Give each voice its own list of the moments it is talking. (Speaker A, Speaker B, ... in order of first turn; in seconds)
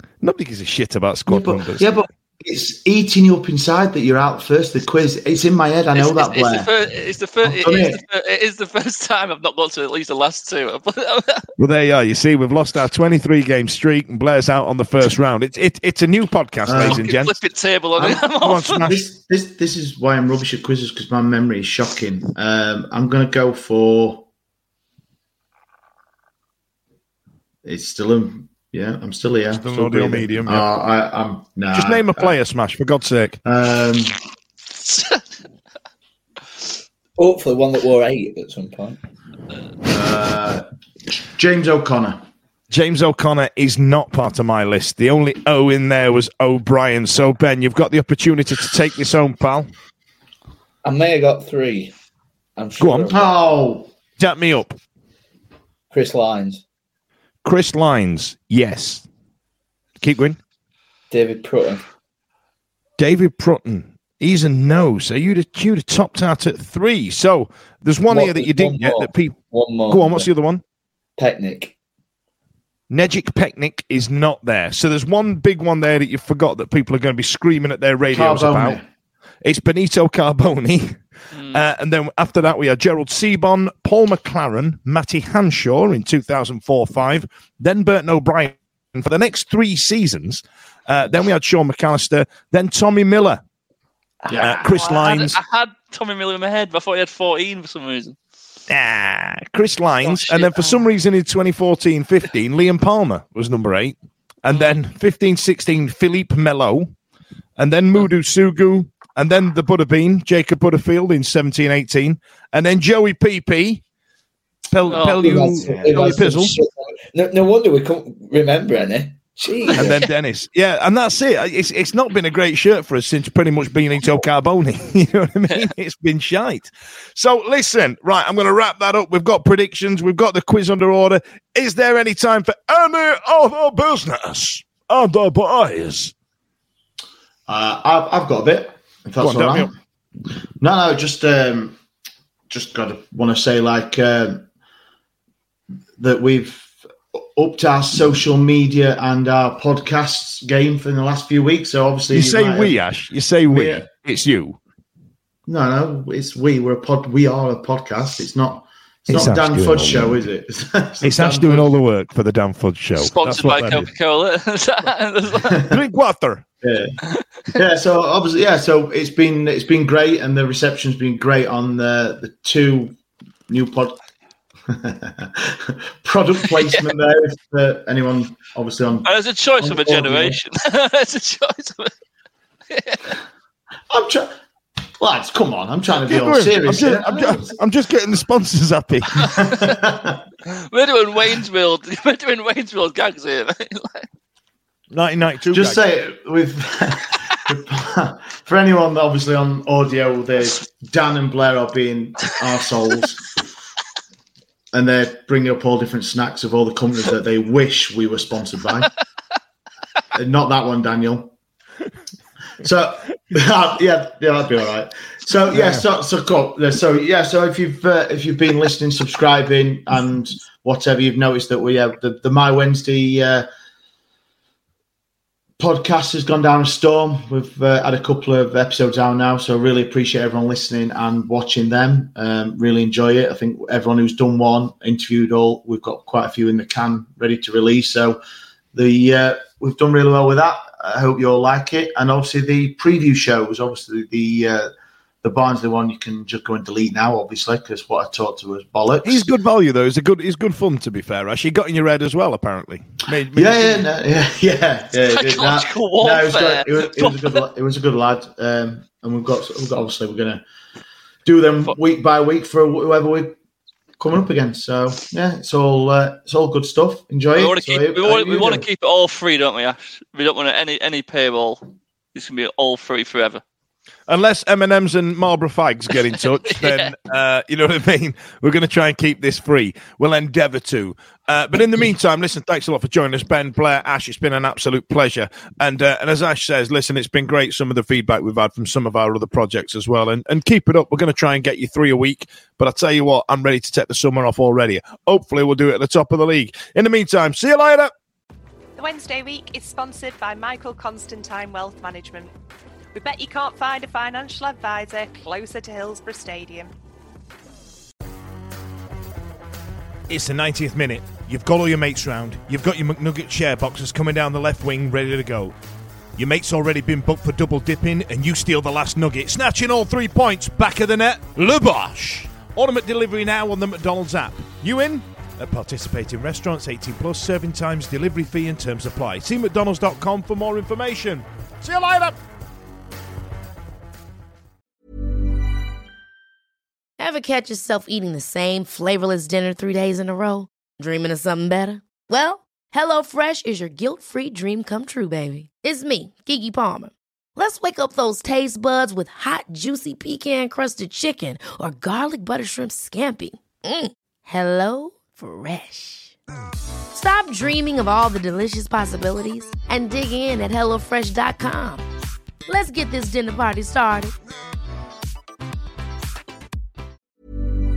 Speaker A: 0.2-1.9, 11.6-17.3, 18.0-19.0, 29.5-30.7, 31.7-33.4, 42.7-49.7, 52.8-53.1, 54.2-54.8, 57.4-59.0, 60.0-60.4, 63.0-70.6, 72.9-78.8, 79.4-93.4, 94.3-95.4, 98.7-106.9, 107.6-113.8, 114.7-116.5, 119.7-136.1, 139.2-139.7, 152.1-154.6, 159.1-160.2, 161.0-163.9, 165.7-166.4, 185.9-189.3, 194.9-195.8, 215.5-215.9, 249.0-253.9, 274.1-297.9, 310.1-315.6, 316.2-332.2
Speaker B: 1.3-6.7, 7.4-8.0, 16.7-17.0, 18.8-24.3, 27.6-32.4, 33.5-34.2, 39.8-40.6, 41.3-42.2, 53.1-53.9, 78.1-78.9, 94.3-94.5, 115.5-116.2, 137.5-139.7, 140.6-141.8, 142.5-144.4, 146.0-152.7, 153.5-153.8, 155.5-161.7, 166.6-166.9, 167.5-172.9, 173.5-174.0, 174.7-179.1, 179.6-180.4, 183.9-184.3, 185.0-187.5, 189.3-190.2, 195.5-203.3, 204.7-208.9, 210.1-211.3, 212.6-223.4, 225.6-238.2, 238.7-244.7, 245.2-249.3, 253.3-260.4, 261.3-263.3, 264.0-268.7
Speaker C: 5.9-11.5, 16.8-18.9, 34.8-35.3, 81.3-81.6, 94.6-98.2, 100.0-100.8, 104.5-104.8, 114.9-115.4, 163.0-165.7, 179.1-181.9, 182.7-183.2, 189.2-189.7, 190.4-194.1, 255.1-257.4, 267.3-273.4, 276.4-276.9
Speaker D: 37.2-39.0, 50.8-51.9, 52.6-53.2, 55.9-56.6, 61.1-61.9, 68.1-70.3, 71.2-71.7, 115.2-120.0
Speaker E: 298.8-302.3, 302.9-306.7
Speaker F: 337.0-356.1, 356.9-361.8, 362.4-364.1